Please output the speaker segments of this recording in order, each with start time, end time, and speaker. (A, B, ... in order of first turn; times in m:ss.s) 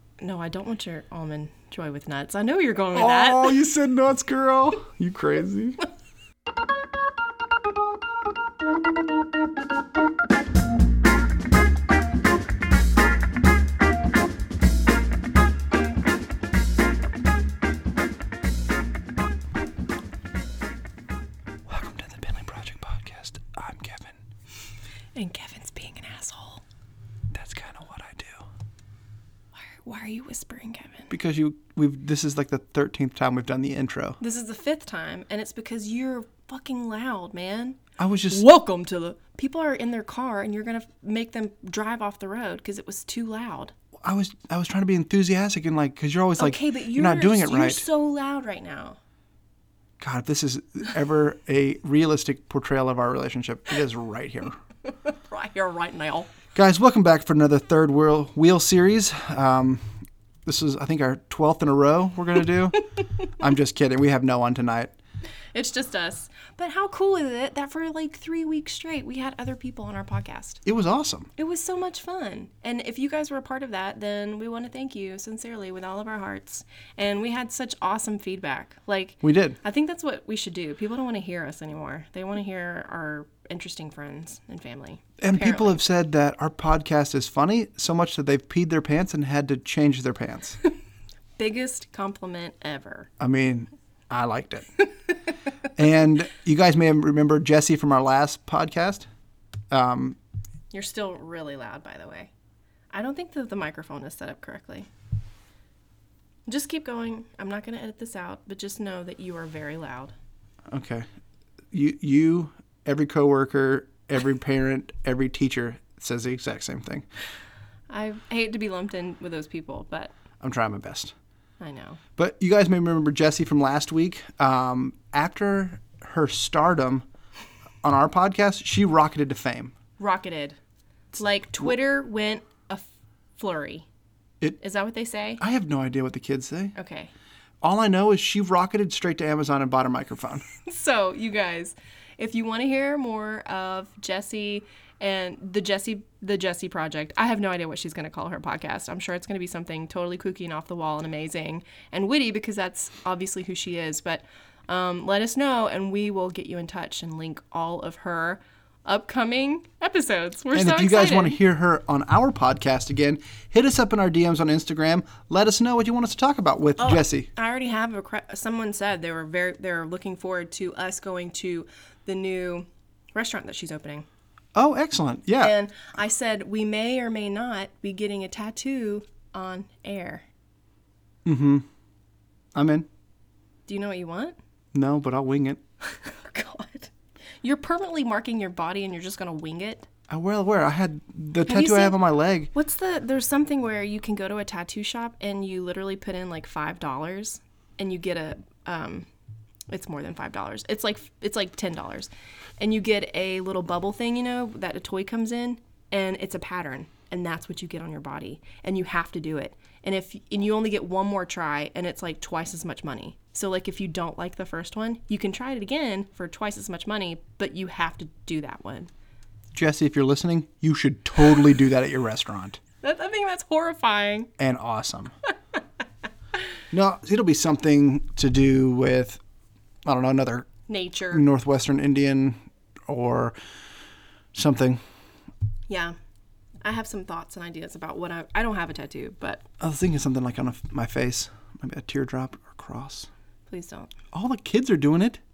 0:00.2-0:03.6 A
0:02.9-0:05.8 B
0:21.7-0:24.1 B
0:25.2-0:26.6 A
0:27.3-0:28.4 B
0:29.6-0:31.1 A
0:31.1-0:34.2 B
0:34.2-0:43.7 A
0:38.0-0:38.4 B
0:44.0-0:47.8 B
0:46.4-0:49.0 A
0:50.0-0:54.6 B
0:54.9-0:56.3 A
0:56.5-1:04.9 B
1:05.5-1:10.6 A
1:10.6-1:11.3 B
1:11.4-1:25.8 A
1:19.2-1:19.6 B
1:25.2-1:30.6 B
1:31.4-1:33.1 A
1:33.2-1:34.8 B
1:35.7-1:39.0 B
1:39.7-1:40.2 B
1:40.7-1:42.3 A
1:42.9-1:44.9 A
1:46.5-1:50.1 A
1:50.7-1:51.0 B
1:51.7-1:57.0 B
1:57.9-2:00.1 A
2:00.4-2:01.1 B
2:01.6-2:02.0 A
2:02.2-2:07.0 B
2:07.8-2:09.7 B
2:10.0-2:10.6 A
2:11.1-2:13.9 A
2:14.6-2:15.4 A
2:15.4-2:16.7 B
2:16.7-2:17.1 A
2:17.6-2:20.4 B
2:20.5-2:41.4 A
2:40.5-2:47.3 B
2:46.8-2:54.1 A
2:54.5-2:55.5 B
2:55.4-3:00.2 A
3:01.2-3:01.6 B
3:02.5-3:02.9 B
3:03.7-3:04.4 A
3:04.7-3:05.6 B
3:05.8-3:06.9 A
3:07.4-3:09.9 A
3:10.1-3:12.5 B
3:11.5-3:12.0 A
3:12.5-3:19.1 A
3:19.7-3:38.9 A
3:39.5-3:42.6 B
3:42.8-3:44.3 A
3:44.4-3:45.1 B
3:46.7-3:49.2 B
3:49.8-3:50.5 B
3:50.7-3:51.2 A
3:51.1-3:52.4 B
3:52.9-3:53.3 B
3:54.3-3:54.8 B
3:55.7-3:55.9 A
3:56.6-3:59.4 A
3:59.6-4:03.1 B
4:03.5-4:03.9 A
4:04.1-4:05.2 B